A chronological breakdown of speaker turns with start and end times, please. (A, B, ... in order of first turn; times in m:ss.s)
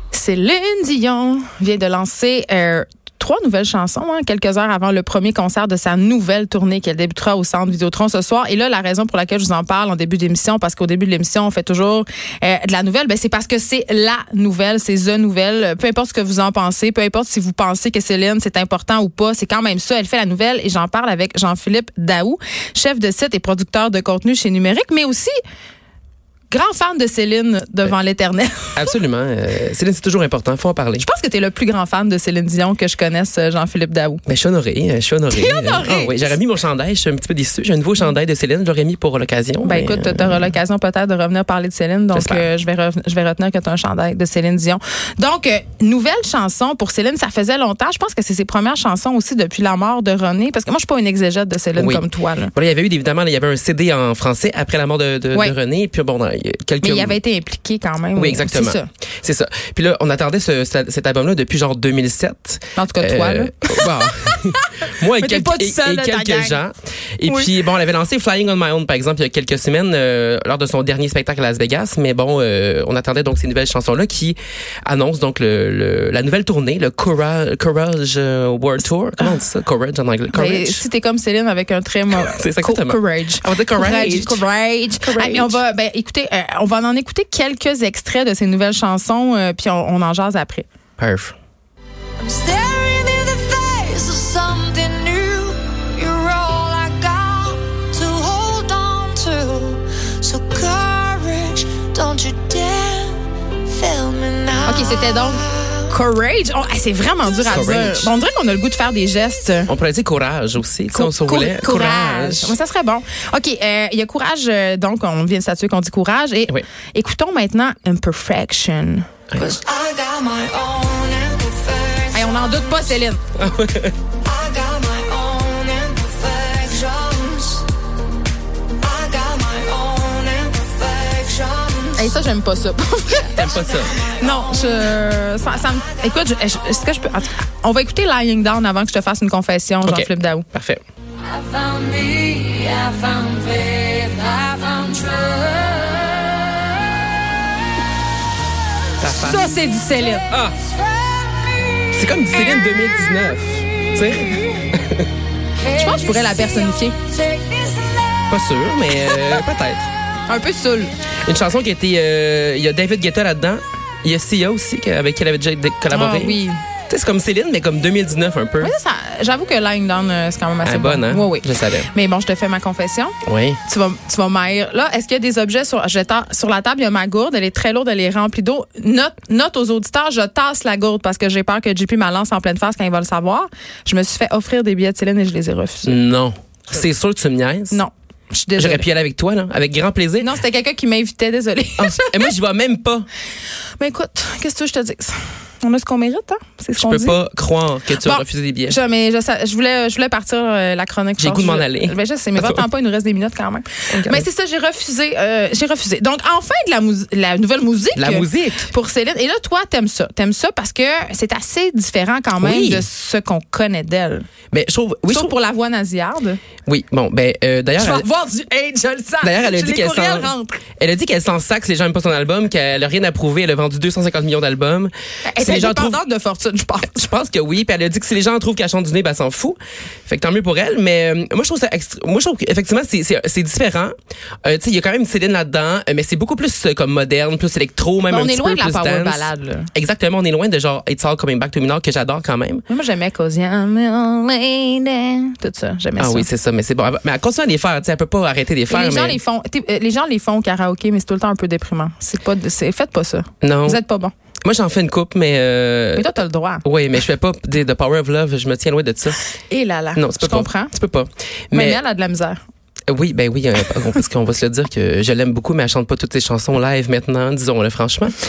0:00.1-0:25.3 A
0:26.5-0:28.9 A
0:28.8-0:31.1 B
0:31.0-0:34.2 A
0:34.3-0:40.5 B
0:35.3-0:36.4 A
0:39.6-0:52.5 A
0:42.1-0:42.5 B
0:51.8-0:57.2 B
0:56.8-0:58.9 A
0:58.2-1:20.8 B
1:02.8-1:06.6 A
1:07.3-1:07.5 A
1:20.3-1:30.7 A
1:22.2-1:24.4 B
1:25.0-1:25.6 B
1:31.0-1:31.4 B
1:32.2-1:45.9 C
1:44.6-1:49.7 A
1:47.4-1:48.1 B
1:49.7-1:52.6 B
1:50.9-1:59.2 A
1:59.3-1:59.6 B
1:59.4-2:02.6 C
2:02.1-2:03.2 A
2:03.4-2:04.0 B
2:04.2-2:07.7 C
2:08.8-2:12.0 C
2:11.9-2:20.5 A
2:13.2-2:14.0 B
2:19.8-2:20.8 B
2:21.3-2:27.0 C
2:29.0-2:29.6 B
2:29.1-2:30.3 A
2:30.3-2:30.6 B
2:31.9-2:35.1 B
2:35.7-2:37.0 A
2:35.7-2:36.5 C
2:37.1-2:38.3 C
2:38.3-2:39.9 B
2:40.3-2:40.9 A
2:41.2-2:48.7 B
2:45.9-2:46.6 A
2:48.6-3:06.0 A
2:50.6-2:51.9 B
2:53.3-2:53.6 B
3:05.8-3:07.8 B
3:07.7-3:08.9 A
3:08.6-3:10.3 B
3:10.2-3:12.3 A
3:11.8-3:13.1 B
3:13.8-3:17.2 A
3:16.8-3:18.8 B
3:18.0-3:34.3 A
3:21.2-3:22.6 B
3:23.9-3:24.2 B
3:28.0-3:28.7 B
3:32.4-3:32.9 B
3:34.5-3:35.3 B
3:35.1-3:36.4 A
3:36.7-3:38.1 B
3:37.8-3:40.6 A
3:39.2-3:46.0 B
3:45.3-3:47.1 A
3:46.9-3:53.9 B
3:54.4-4:02.6 B
3:58.1-3:59.7 A
4:02.7-4:06.3 A
4:06.0-4:09.2 B
4:08.7-4:14.1 A
4:13.4-4:13.8 B
4:14.4-4:16.1 B
4:16.0-4:16.6 A
4:16.6-4:19.2 B
4:19.4-4:20.7 A
4:20.0-4:21.8 B
4:21.5-4:22.4 A
4:22.9-4:28.2 B